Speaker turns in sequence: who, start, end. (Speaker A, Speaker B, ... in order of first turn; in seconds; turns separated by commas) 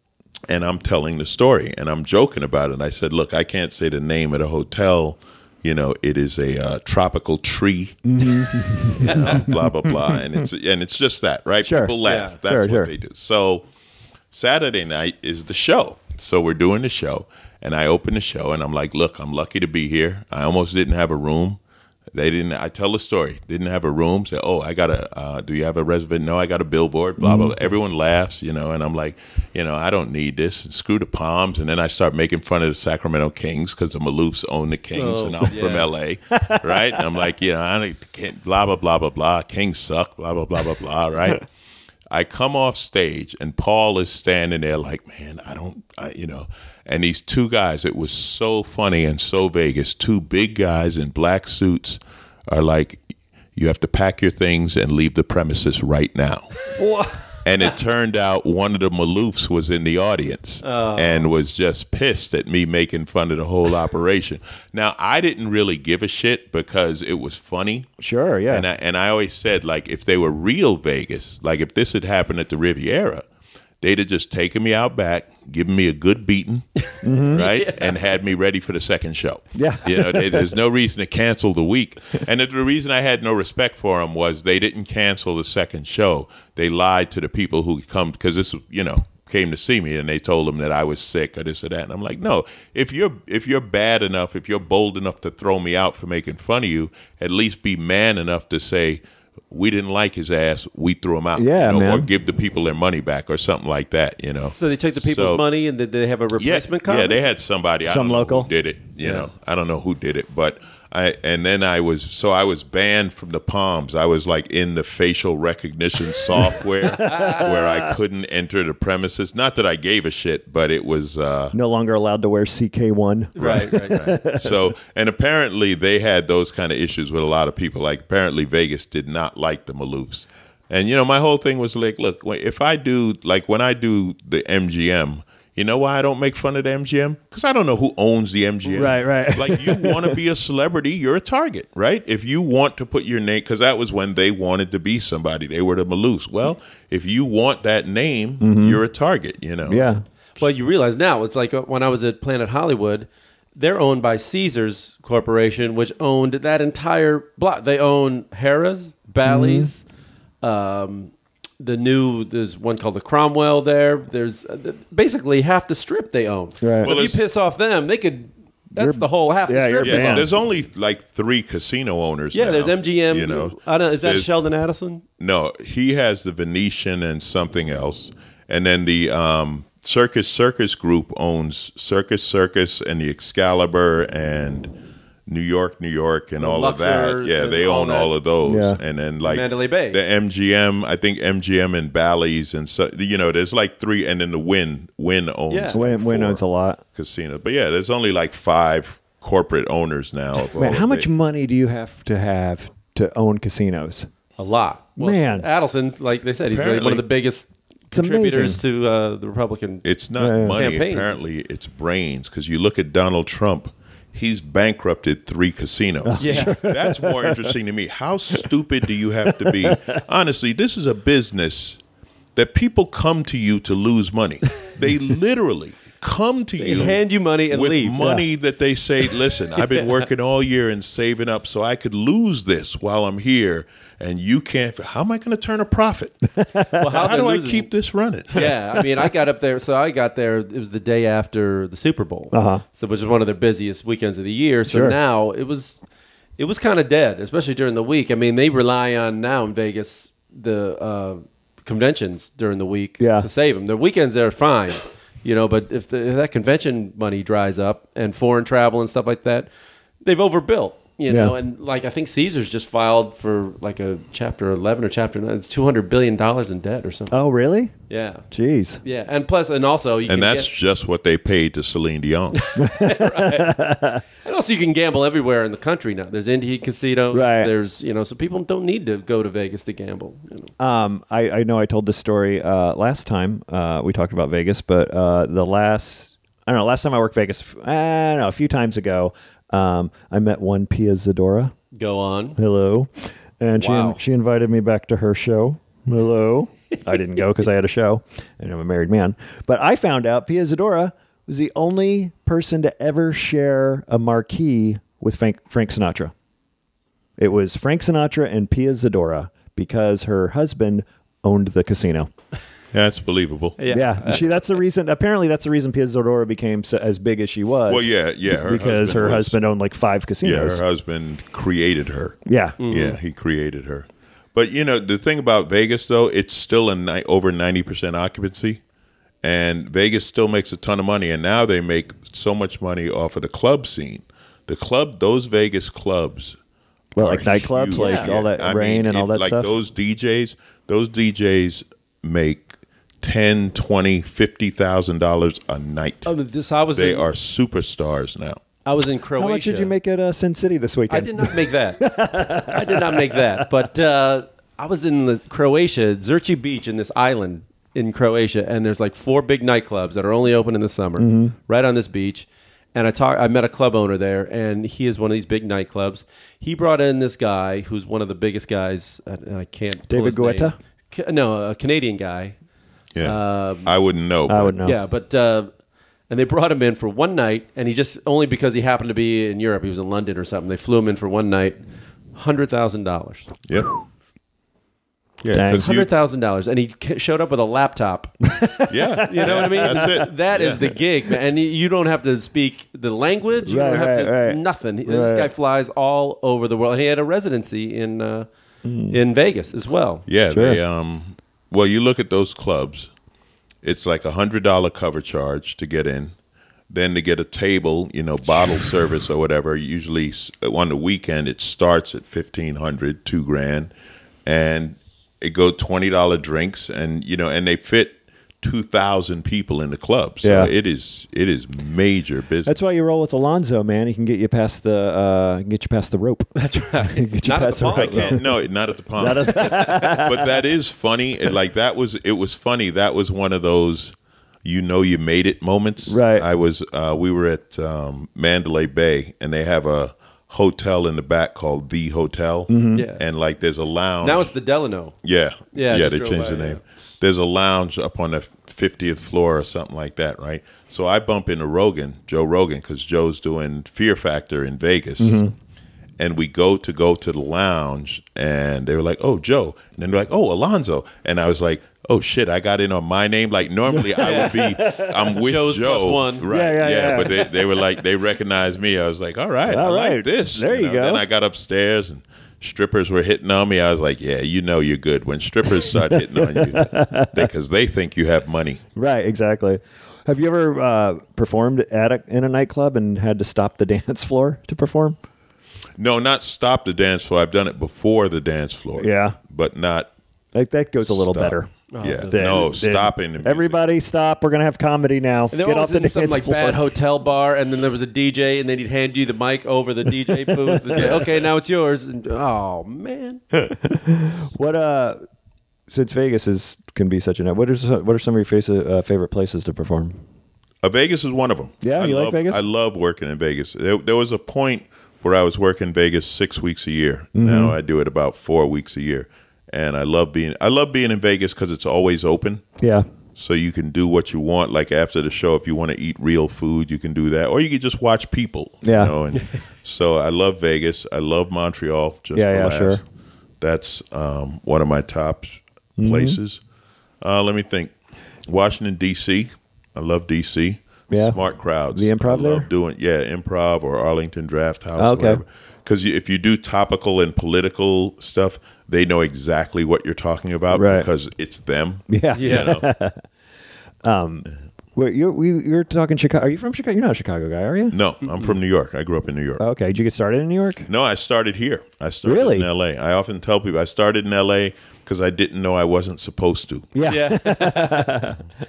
Speaker A: 0.5-13.7, Speaker B: 8.1-10.4, Speaker C: 9.0-9.4, Speaker B: 11.6-12.9, Speaker C: 12.0-12.3, Speaker A: 14.3-21.6, Speaker A: 22.1-41.5, Speaker B: 27.2-27.6, Speaker C: 34.9-35.9, Speaker B: 36.5-37.0, Speaker A: 42.1-53.0, Speaker A: 53.5-56.5, Speaker B: 56.8-57.2, Speaker A: 57.4-67.9, Speaker C: 60.6-61.3, Speaker B: 68.0-68.7, Speaker A: 68.5-73.2, Speaker A: 73.8-105.4, Speaker B: 77.0-77.4, Speaker C: 77.3-77.9, Speaker B: 79.5-80.5, Speaker B: 101.3-102.1, Speaker C: 104.5-107.2, Speaker A: 106.4-121.5, Speaker B: 107.8-108.5, Speaker C: 109.0-109.3, Speaker B: 116.4-118.0, Speaker C: 116.8-117.5, Speaker B: 121.5-124.7, Speaker C: 123.3-124.1, Speaker A: 123.4-149.9, Speaker B: 138.7-140.2, Speaker B: 148.4-148.8, Speaker B: 149.7-150.0, Speaker C: 150.4-159.8, Speaker B: 159.2-159.7, Speaker C: 160.4-170.3, Speaker B: 166.6-166.9, Speaker A: 166.8-167.2, Speaker B: 168.7-170.3, Speaker A: 169.8-174.3, Speaker C: 172.3-175.0, Speaker A: 175.2-184.7, Speaker A: 185.3-196.4, Speaker C: 186.4-188.1, Speaker B: 188.4-188.8, Speaker C: 189.2-190.0, Speaker C: 195.5-195.8, Speaker B: 195.7-196.8, Speaker A: 196.9-201.1, Speaker B: 200.5-204.1, Speaker C: 204.4-209.8, Speaker B: 205.0-205.5, Speaker A: 206.5-207.0, Speaker B: 207.9-208.6, Speaker A: 209.8-221.8, Speaker B: 210.2-210.7, Speaker C: 210.5-211.2, Speaker B: 216.0-217.6, Speaker C: 216.2-216.6, Speaker B: 219.2-220.0, Speaker A: 222.3-236.3, Speaker C: 226.6-228.2, Speaker C: 229.7-230.0, Speaker B: 236.4-236.8, Speaker C: 236.8-237.7, Speaker A: 236.9-238.5, Speaker C: 238.3-245.8, Speaker B: 242.3-242.6, Speaker B: 244.7-244.9, Speaker C: 246.4-259.5, Speaker B: 253.0-253.3, Speaker C: 260.0-267.1, Speaker B: 261.1-261.3, Speaker B: 267.1-267.7, Speaker C: 267.9-268.2, Speaker B: 268.3-268.8, Speaker C: 268.8-270.5, Speaker A: 270.1-272.4, Speaker C: 272.3-273.6, Speaker B: 272.6-274.0, Speaker C: 274.2-280.5, Speaker B: 277.1-277.5, Speaker B: 280.6-291.5, Speaker C: 291.7-292.4, Speaker B: 292.4-306.1, Speaker C: 293.6-294.0, Speaker B: 307.2-312.1, Speaker A: 312.7-313.6, Speaker C: 313.6-314.6, Speaker B: 313.7-320.6, Speaker A: 317.7-319.4, Speaker A: 320.2-328.6, Speaker B: 322.2-322.6, Speaker C: 322.6-323.0, Speaker A: 329.2-336.4, Speaker B: 336.9-339.5, Speaker A: 336.9-346.1, Speaker C: 337.7-338.1, Speaker C: 346.0-347.1, Speaker A: 346.7-348.4, Speaker C: 348.6-349.7, Speaker B: 349.2-353.5, Speaker C: 350.9-351.9, Speaker C: 352.4-372.4, Speaker B: 361.0-361.3, Speaker B: 369.9-370.6, Speaker A: 372.9-374.6, Speaker C: 373.0-373.7, Speaker B: 374.3-374.8, Speaker C: 374.6-375.5, Speaker C: 376.1-381.6, Speaker C: 382.1-383.3, Speaker A: 383.5-383.7, Speaker A: 385.2-385.9, Speaker B: 385.3-385.7, Speaker C: 385.6-388.2, Speaker B: 388.2-390.0, Speaker A: 388.7-390.7, Speaker C: 389.0-398.3, Speaker B: 393.4-395.3, Speaker B: 398.6-399.0, Speaker C: 398.9-400.1, Speaker A: 400.1-402.9, Speaker B: 400.3-400.6, Speaker A: 403.6-406.1, Speaker A: 406.7-413.7, Speaker A: 414.2-422.5, Speaker B: 420.2-420.5, Speaker B: 422.4-426.3, Speaker C: 426.3-428.2, Speaker B: 426.8-428.2, Speaker A: 427.7-444.3, Speaker B: 429.0-430.3, Speaker C: 429.3-430.0, Speaker B: 435.9-436.3, Speaker B: 442.5-442.8, Speaker C: 442.7-443.0, Speaker C: 444.0-444.9, Speaker A: 445.0-455.2, Speaker C: 445.5-446.6, Speaker B: 455.0-455.3, Speaker A: 456.0-478.6, Speaker B: 463.7-465.1, Speaker C: 464.0-464.6, Speaker C: 465.2-466.2, Speaker B: 466.3-467.6, Speaker B: 469.4-471.0, Speaker B: 475.6-477.3, Speaker B: 478.8-485.0, Speaker A: 485.8-489.9, Speaker B: 488.8-489.2, Speaker B: 490.3-491.5, Speaker A: 490.9-493.6, Speaker C: 491.7-492.5, Speaker B: 492.1-496.6, Speaker C: 495.3-503.2, Speaker B: 500.1-500.9, Speaker A: 500.8-501.2, Speaker B: 503.3-505.0, Speaker B: 505.7-510.0, Speaker A: 510.6-522.5, Speaker B: 511.6-512.4, Speaker B: 517.1-517.5, Speaker B: 522.6-522.9, Speaker A: 523.1-532.8, Speaker B: 528.6-528.9, Speaker B: 532.1-532.8, Speaker A: 533.4-536.4, Speaker B: 535.8-536.2, Speaker A: 537.0-537.7, Speaker A: 538.2-552.7, Speaker B: 540.9-541.2, Speaker B: 541.7-542.5, Speaker B: 544.8-545.2, Speaker B: 550.5-550.9, Speaker B: 551.9-553.0, Speaker C: 552.1-552.5, Speaker B: 553.8-557.8, Speaker A: 557.7-559.4, Speaker B: 559.4-560.7, Speaker A: 560.7-566.7, Speaker B: 562.0-562.5, Speaker B: 566.7-568.2, Speaker C: 566.8-568.0